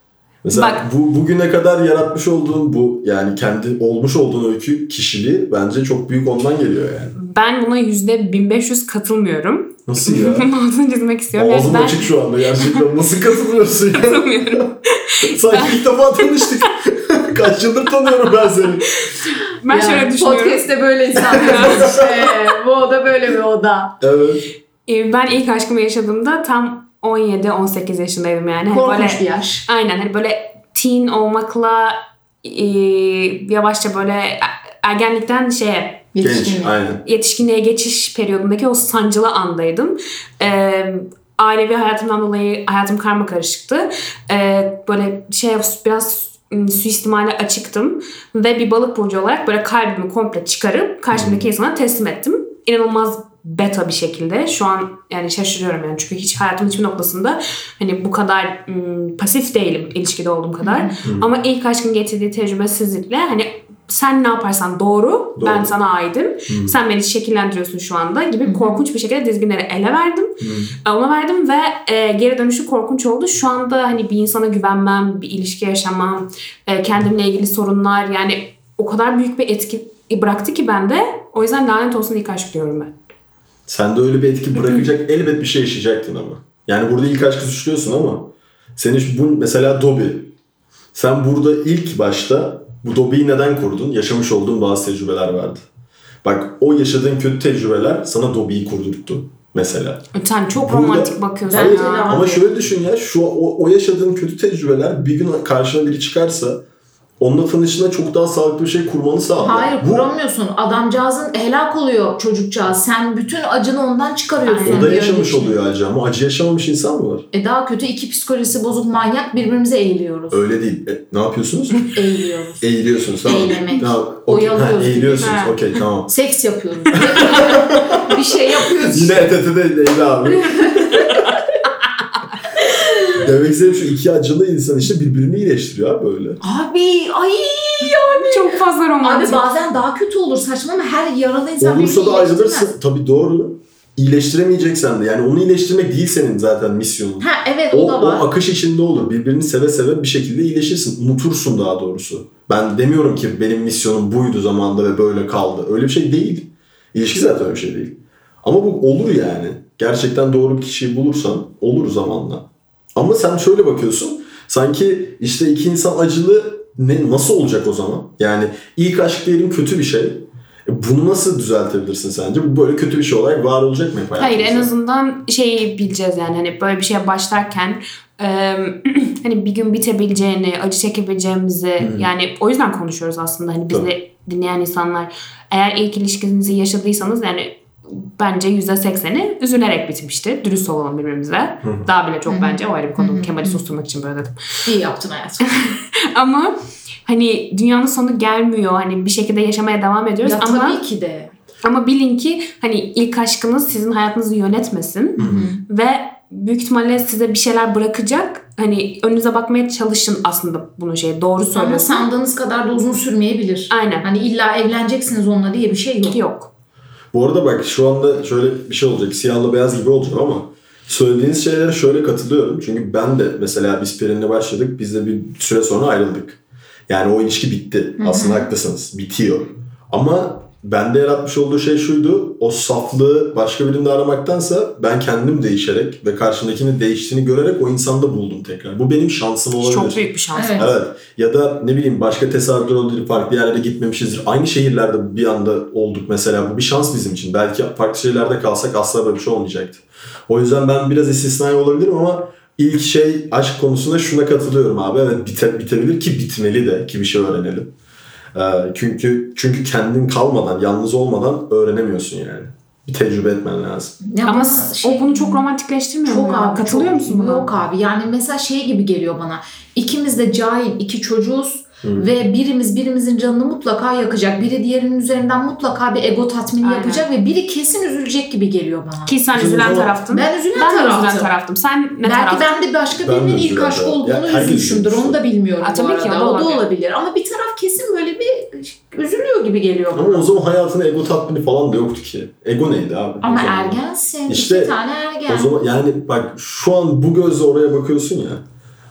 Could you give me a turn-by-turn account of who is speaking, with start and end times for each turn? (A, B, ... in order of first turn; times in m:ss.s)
0:00.4-0:07.1 A
0:00.5-0:00.8 B
0:07.1-0:12.9 B
0:09.9-0:10.5 A
0:11.3-0:14.7 A
0:13.9-0:16.6 B
0:15.2-0:19.0 A
0:18.9-0:20.7 B
0:19.7-0:24.0 C
0:21.3-0:22.0 A
0:21.4-0:22.3 B
0:24.0-0:24.5 A
0:24.9-0:36.1 B
0:28.7-0:29.6 C
0:36.1-0:36.7 C
0:36.2-0:37.0 A
0:37.0-1:22.9 B
0:51.1-0:51.4 A
1:00.6-1:00.9 C
1:01.0-1:01.3 A
1:05.4-1:05.7 A
1:06.5-1:06.8 A
1:08.4-1:08.8 C
1:10.4-1:10.8 A
1:23.7-1:30.3 A
1:24.6-1:24.9 B
1:30.9-1:35.6 A
1:36.2-1:40.0 A
1:40.1-1:42.3 B
1:40.5-1:46.6 A
1:41.5-1:42.4 C
1:47.2-1:50.1 A
1:49.4-1:55.6 C
1:54.4-1:55.2 B
1:54.6-1:57.3 A
1:57.3-2:00.4 C
2:00.3-2:01.9 A
2:01.9-2:02.6 C
2:02.6-2:06.1 A
2:03.2-2:05.4 C
2:05.2-2:05.8 B
2:06.1-2:09.3 C
2:06.9-2:08.2 A
2:08.8-2:11.3 A
2:10.5-2:11.2 C
2:13.1-2:16.4 A
2:16.4-2:22.7 C
2:18.2-2:19.5 B
2:21.6-2:54.7 A
2:27.2-2:28.3 C
2:54.2-3:14.4 B
3:01.8-3:02.1 A
3:11.6-3:11.9 A
3:12.3-3:13.6 C
3:14.6-3:15.6 C
3:15.5-3:20.8 B
3:20.2-3:21.3 C
3:21.6-3:32.1 B
3:25.2-3:25.6 C
3:25.2-3:25.5 A
3:31.5-3:36.2 C
3:33.7-3:34.1 B
3:36.0-3:36.5 B
3:37.1-4:17.7 A
3:48.0-3:48.5 C
3:59.6-4:00.7 B
4:00.3-4:00.7 C
4:18.3-4:24.0 A
4:24.0-4:25.4 C
4:24.2-4:27.5 B
4:26.0-4:39.2 C
4:31.8-4:32.1 A
4:36.6-4:37.1 B
4:39.0-4:42.6 B
4:39.3-4:40.0 A
4:40.1-4:41.3 C
4:42.0-4:50.3 C
4:42.9-4:45.2 A
4:45.6-4:46.6 B
4:49.9-4:54.8 A
4:53.2-4:55.5 C
4:55.3-4:58.4 A